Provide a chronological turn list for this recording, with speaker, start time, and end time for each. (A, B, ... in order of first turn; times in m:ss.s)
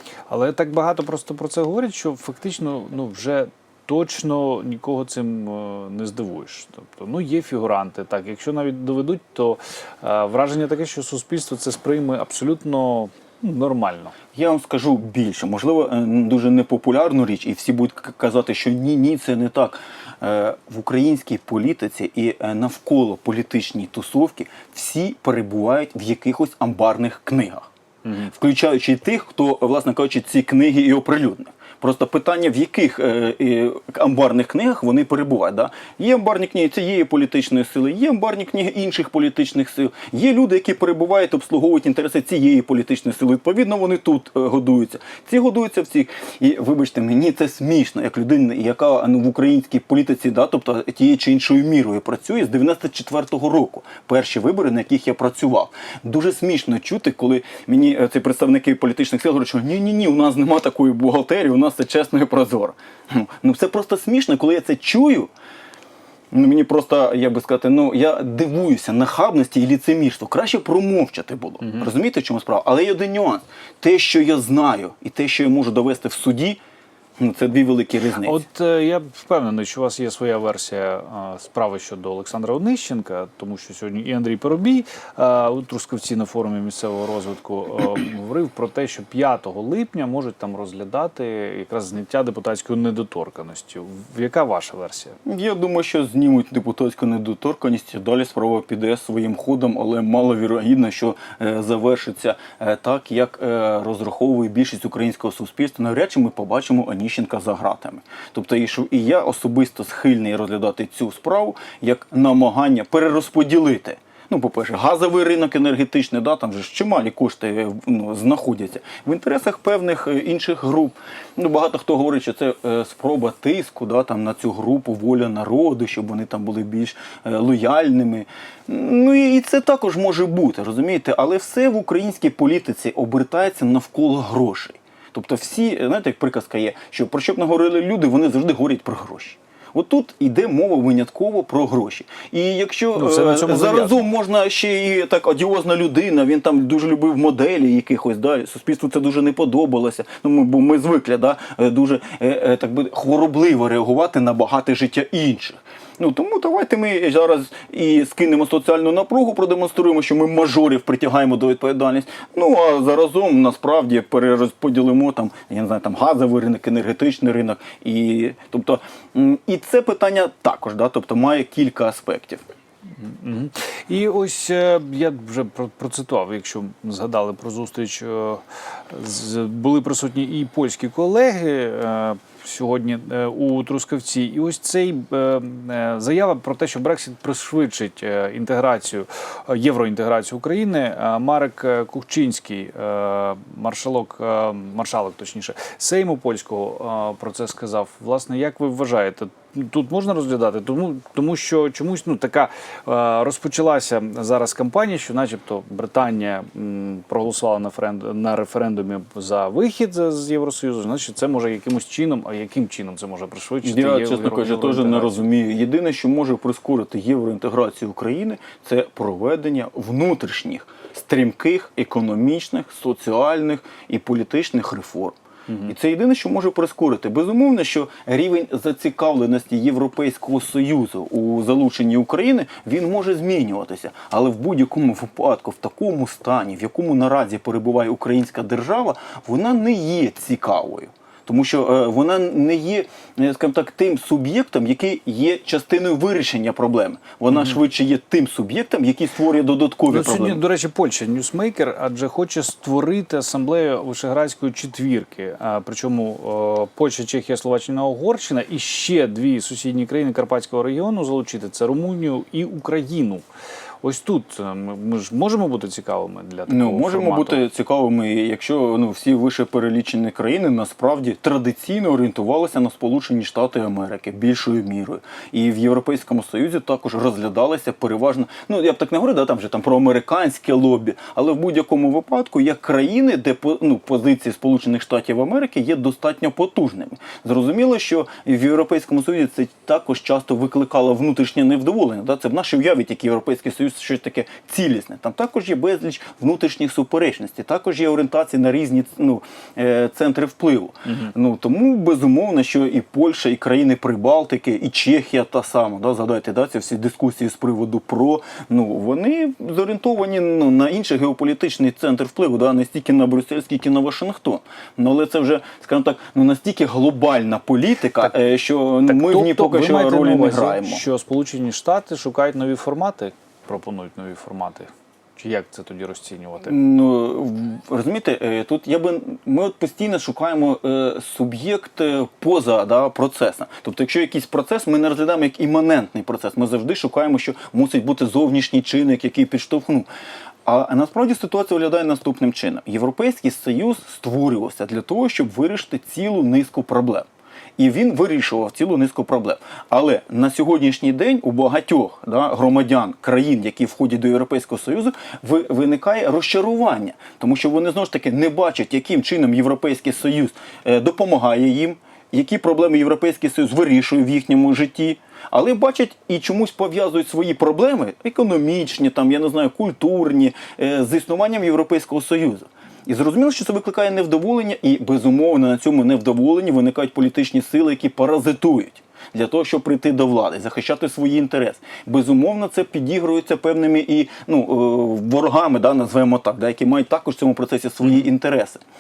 0:00.3-0:14.1 A
0:14.3-0:27.7 B
0:28.0-0:28.3 A
0:28.3-1:05.3 B
1:06.3-1:16.6 B
1:11.6-1:11.9 A
1:17.2-1:18.4 B
1:18.2-1:35.2 A
1:35.2-2:52.4 B
2:23.0-2:24.0 A
2:53.0-3:35.2 A
3:33.6-4:10.4 B
4:09.9-4:23.2 A
4:23.8-4:27.4 A
4:26.5-5:20.8 B
5:18.8-5:26.5 A
5:26.4-5:39.9 B
5:40.4-5:47.1 B
5:47.6-6:28.6 B